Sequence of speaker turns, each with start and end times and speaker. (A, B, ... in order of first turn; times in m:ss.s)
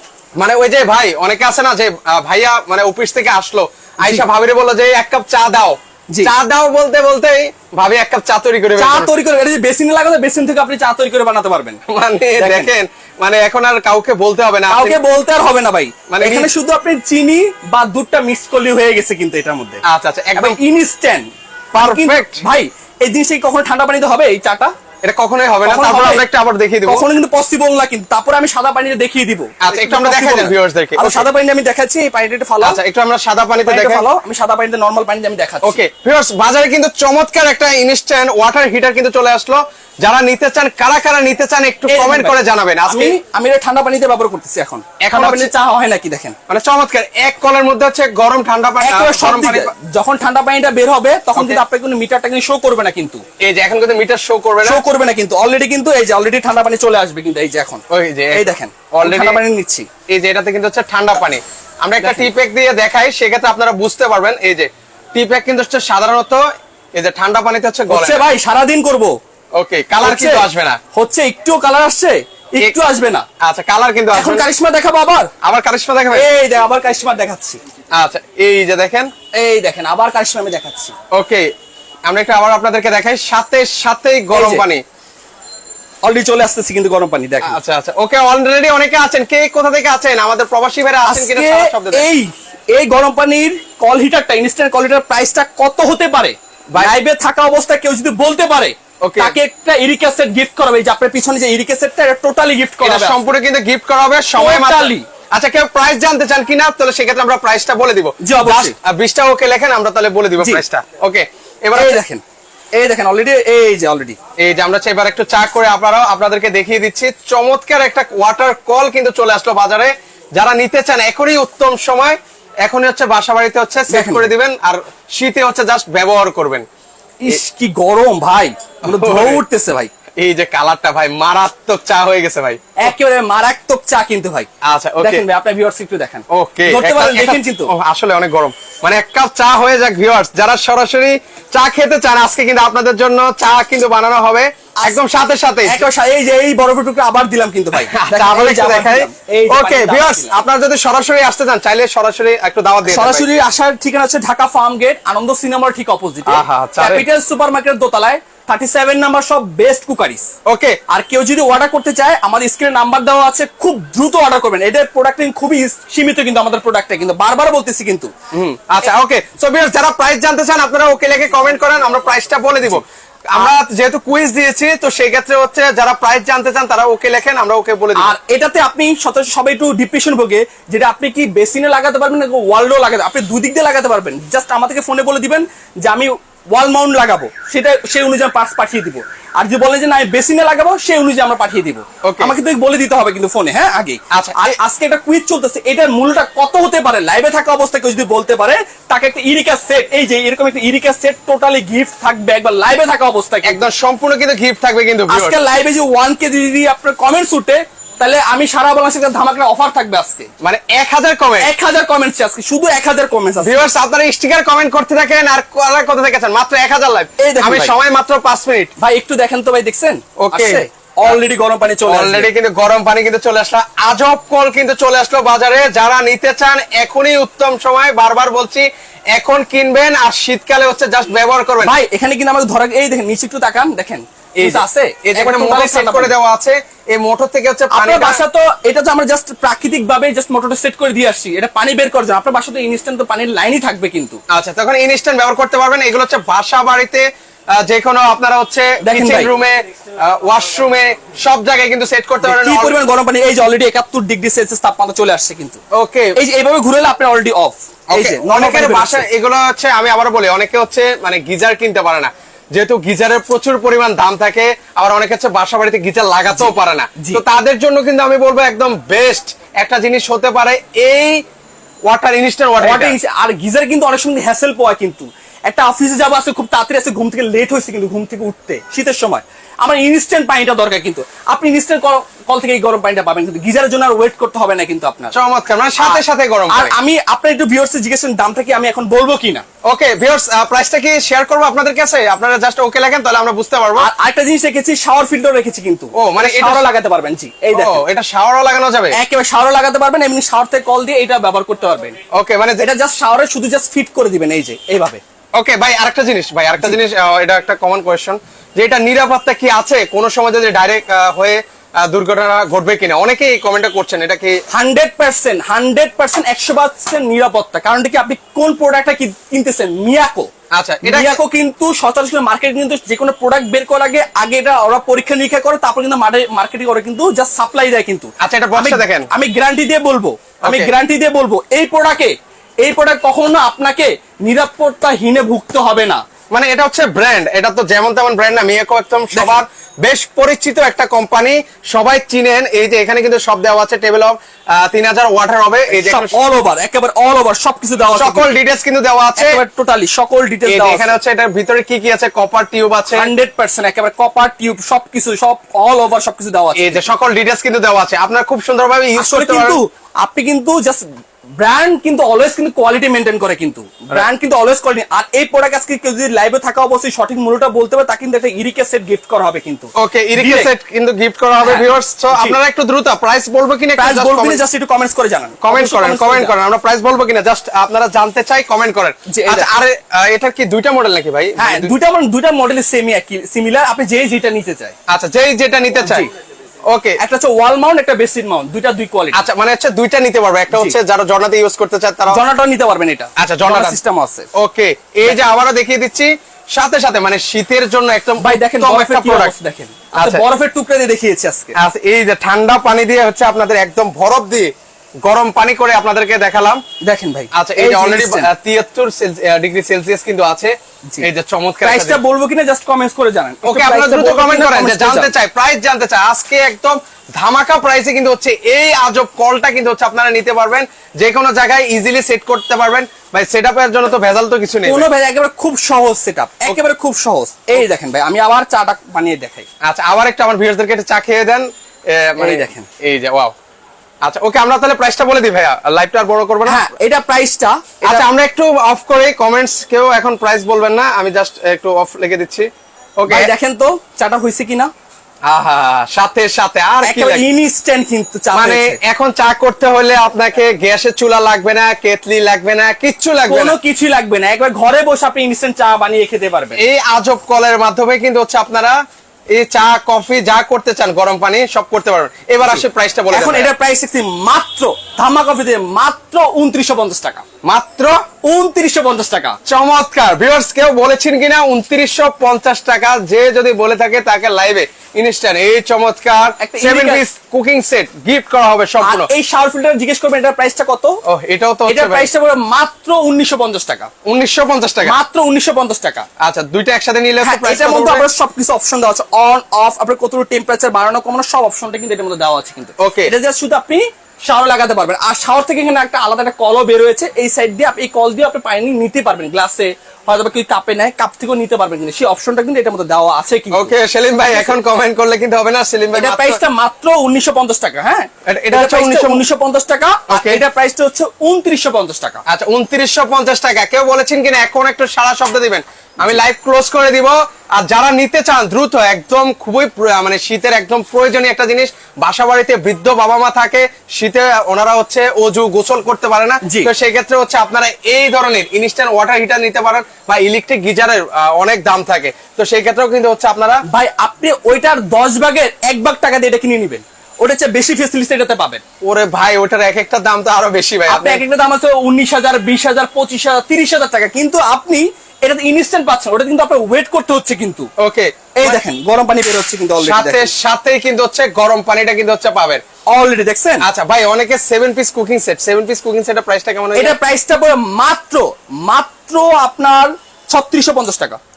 0:00.4-0:09.1 A
0:08.8-0:11.8 B
0:11.9-0:15.0 A
0:12.4-0:12.7 B
0:14.7-0:19.8 B
0:16.1-0:16.5 A
0:19.9-0:20.6 A
0:20.4-0:24.7 B
0:21.7-0:22.4 A
0:25.0-0:27.0 A
0:25.6-0:26.2 B
0:26.9-0:32.8 B
0:29.6-0:31.2 A
0:32.6-0:34.1 A
0:33.6-0:35.8 B
0:35.6-0:43.2 A
0:41.9-0:46.4 B
0:45.0-0:45.5 A
0:46.5-0:49.7 A
0:48.8-0:53.2 B
0:51.3-0:51.6 A
0:53.4-0:54.8 A
0:54.6-0:57.8 B
0:57.9-0:59.4 A
0:58.3-0:59.9 B
1:00.1-1:06.4 A
1:02.0-1:02.3 B
1:06.9-1:08.2 A
1:07.9-1:09.1 B
1:09.6-1:10.8 A
1:10.0-1:13.2 B
1:13.4-1:14.5 A
1:14.1-1:15.3 B
1:15.4-1:16.2 A
1:16.1-1:17.6 B
1:18.0-1:19.1 A
1:19.4-1:20.9 B
1:21.1-1:21.5 A
1:22.0-1:24.8 A
1:24.3-1:24.6 B
1:26.0-1:27.6 B
1:27.4-1:32.0 A
1:31.0-1:43.2 B
1:39.0-1:39.4 A
1:42.8-1:52.0 A
1:44.4-1:45.0 B
1:48.2-1:48.7 B
1:50.4-1:50.6 B
1:51.7-1:52.2 B
1:52.8-1:54.2 B
1:54.4-2:06.7 A
2:03.9-2:04.3 B
2:07.2-2:09.9 B
2:08.8-2:09.4 A
2:10.2-2:12.7 A
2:12.8-2:14.5 B
2:14.6-2:15.2 A
2:15.0-2:17.7 B
2:16.3-2:25.8 A
2:25.6-2:30.3 B
2:27.8-2:33.3 A
2:32.8-2:40.3 B
2:36.2-2:37.0 A
2:40.5-2:40.8 A
2:40.9-2:48.1 B
2:48.3-2:58.1 A
2:58.0-3:23.6 B
3:12.0-3:12.4 A
3:14.1-3:14.6 A
3:23.4-3:25.4 A
3:25.1-3:30.3 B
3:30.4-3:31.5 A
3:31.4-3:33.6 B
3:33.4-3:38.7 A
3:37.2-3:37.7 B
3:38.8-3:42.3 B
3:40.2-3:41.2 A
3:41.8-3:51.7 A
3:51.6-3:56.1 B
3:54.4-3:58.2 A
3:57.7-4:04.2 B
4:04.3-4:12.8 A
4:08.8-4:09.3 B
4:12.2-4:15.6 B
4:15.8-4:16.2 A
4:16.2-4:19.0 B
4:17.9-4:31.2 A
4:26.3-4:27.2 B
4:31.9-4:33.0 A
4:32.6-4:45.1 B
4:45.1-4:46.8 A
4:45.8-4:49.4 B
4:49.6-4:53.9 A
4:53.8-4:57.8 B
4:56.0-4:56.7 A
4:57.5-4:59.0 A
4:58.9-5:02.0 B
5:02.1-5:02.7 A
5:02.6-5:05.0 B
5:05.4-5:14.4 A
5:14.5-5:20.3 B
5:20.5-5:21.2 A
5:20.8-5:36.0 B
5:28.2-5:29.1 A
5:30.4-5:30.7 A
5:36.3-5:46.2 A
5:39.1-5:39.4 B
5:45.7-5:48.3 B
5:47.9-5:49.4 A
5:49.2-5:50.9 B
5:50.4-5:53.1 A
5:52.9-5:56.8 B
5:56.6-5:59.6 A
5:59.0-6:00.9 B
6:01.4-6:10.5 B
6:09.8-6:14.4 A
6:11.4-6:12.4 B
6:13.8-6:16.3 B
6:15.4-6:21.8 A
6:19.1-6:19.5 B
6:21.4-6:24.8 B
6:24.9-6:26.1 A
6:25.8-6:26.1 B
6:26.7-6:27.0 A
6:27.0-6:29.2 B
6:29.1-6:32.2 A
6:32.1-6:34.3 B
6:33.2-6:33.8 A
6:34.4-6:39.3 A
6:38.2-6:41.5 B
6:39.9-6:40.2 A
6:41.6-6:44.5 A
6:45.0-6:46.6 A
6:46.8-6:48.3 B
6:47.4-6:52.0 A
6:51.6-6:55.1 B
6:53.4-7:04.9 A
7:04.6-7:09.5 B
7:09.6-7:13.3 A
7:12.2-7:12.7 B
7:14.0-7:16.6 A
7:16.4-7:18.0 B
7:17.8-7:22.5 A
7:23.0-7:23.3 A
7:23.1-7:24.7 B
7:25.3-7:27.2 A
7:26.8-7:28.8 B
7:28.3-7:33.6 A
7:33.3-7:36.6 B
7:36.6-7:38.8 A
7:39.3-7:43.5 A
7:42.4-7:47.2 B
7:47.4-7:48.0 A
7:48.2-7:49.4 B
7:49.5-7:59.1 A
7:56.4-7:57.0 B
7:58.8-8:01.0 B
8:01.1-8:02.1 A
8:01.7-8:03.9 B
8:04.0-8:05.0 A
8:04.8-8:06.0 B
8:06.2-8:08.0 A
8:07.2-8:23.7 B
8:12.8-8:13.1 A
8:23.5-8:26.4 A
8:24.3-8:24.6 B
8:25.9-8:32.2 B
8:28.3-8:29.2 A
8:30.1-8:30.4 A
8:32.3-8:53.6 A
8:46.4-8:46.7 B
8:53.7-8:58.6 B
8:58.8-9:01.2 A
9:00.9-9:07.7 B
9:07.8-9:08.6 A
9:08.4-9:10.3 B
9:09.8-9:12.6 A
9:12.9-9:13.7 B
9:13.6-9:17.0 A
9:16.8-9:21.2 B